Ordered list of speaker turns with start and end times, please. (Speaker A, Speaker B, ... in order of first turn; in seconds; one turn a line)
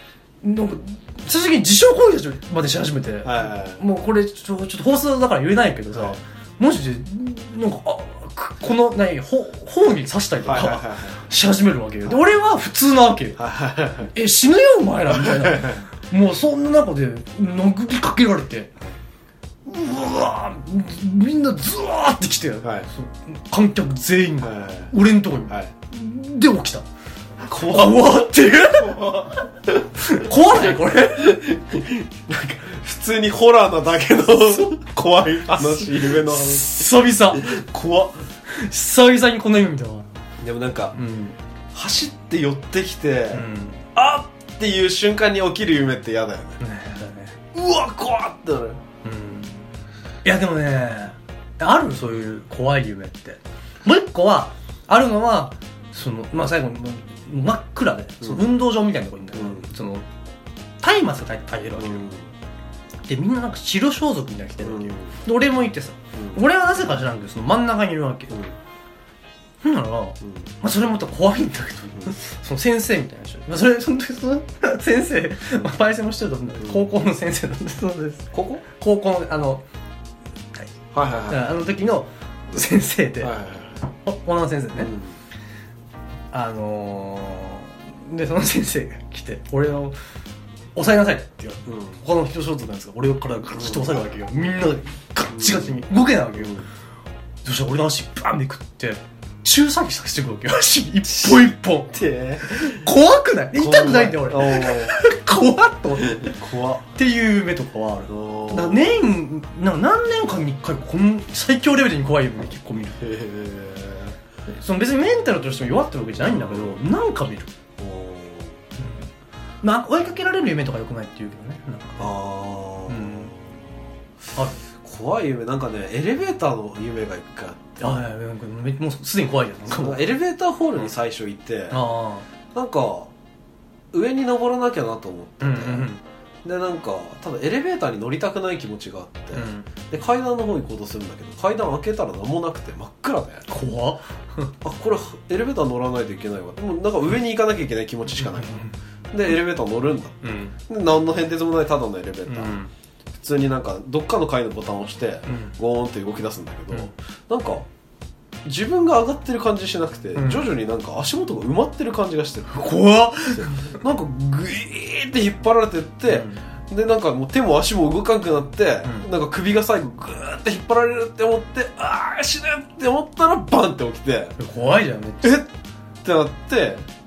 Speaker A: 0.4-13.4
Speaker B: 3.2-3.8
Speaker B: 5.9-6.2
Speaker B: 10.4-11.2
Speaker B: 13.4-14.1
Speaker A: 14.1-18.7
Speaker B: 15.1-15.8
Speaker A: 19.7-26.9
Speaker B: 24.4-24.9
Speaker B: 27.5-29.4
Speaker A: 27.5-31.4
Speaker B: 31.1-38.2
Speaker A: 35.6-37.6
Speaker A: 38.5-40.1
Speaker B: 40.4-41.0
Speaker A: 40.9-41.4
Speaker B: 41.7-46.6
Speaker A: 43.3-43.9
Speaker A: 46.6-47.4
Speaker B: 47.5-48.8
Speaker A: 49.0-49.7
Speaker A: 50.2-60.0
Speaker B: 58.2-58.5
Speaker B: 59.4-59.7
Speaker A: 60.8-62.0
Speaker B: 61.8-62.3
Speaker A: 63.1-68.3
Speaker B: 64.6-65.2
Speaker B: 66.2-66.4
Speaker A: 69.6-79.7
Speaker B: 78.3-78.6
Speaker B: 80.9-81.5
Speaker A: 81.3-83.3
Speaker B: 83.2-83.8
Speaker A: 84.0-84.9
Speaker B: 84.8-85.2
Speaker A: 86.3-90.0
Speaker A: 90.8-96.6
Speaker B: 91.7-92.0
Speaker B: 93.5-94.0
Speaker B: 95.3-95.8
Speaker B: 96.4-96.7
Speaker A: 97.4-106.4
Speaker B: 101.3-102.8
Speaker B: 103.5-105.0
Speaker B: 106.0-106.9
Speaker A: 107.0-113.0
Speaker B: 108.1-108.9
Speaker B: 113.0-114.2
Speaker A: 114.5-117.5
Speaker B: 116.2-116.8
Speaker B: 117.8-118.6
Speaker A: 118.8-119.1
Speaker A: 119.6-122.1
Speaker B: 122.0-123.5
Speaker A: 122.9-123.3
Speaker A: 124.4-124.6
Speaker B: 124.8-127.7
Speaker A: 127.8-130.1
Speaker B: 129.7-131.8
Speaker A: 131.7-132.3
Speaker B: 132.5-133.1
Speaker B: 133.9-135.9
Speaker A: 135.4-136.0
Speaker B: 136.4-143.5
Speaker A: 139.3-139.7
Speaker A: 143.5-144.5
Speaker B: 144.6-152.6
Speaker A: 148.2-148.7
Speaker A: 150.2-150.6
Speaker A: 152.3-152.7
Speaker B: 153.2-157.7
Speaker A: 155.3-155.6
Speaker B: 158.4-162.7
Speaker A: 160.2-160.5
Speaker A: 162.5-163.8
Speaker B: 163.3-174.4
Speaker A: 166.1-166.4
Speaker A: 174.4-175.4
Speaker B: 175.2-175.5
Speaker B: 176.0-176.8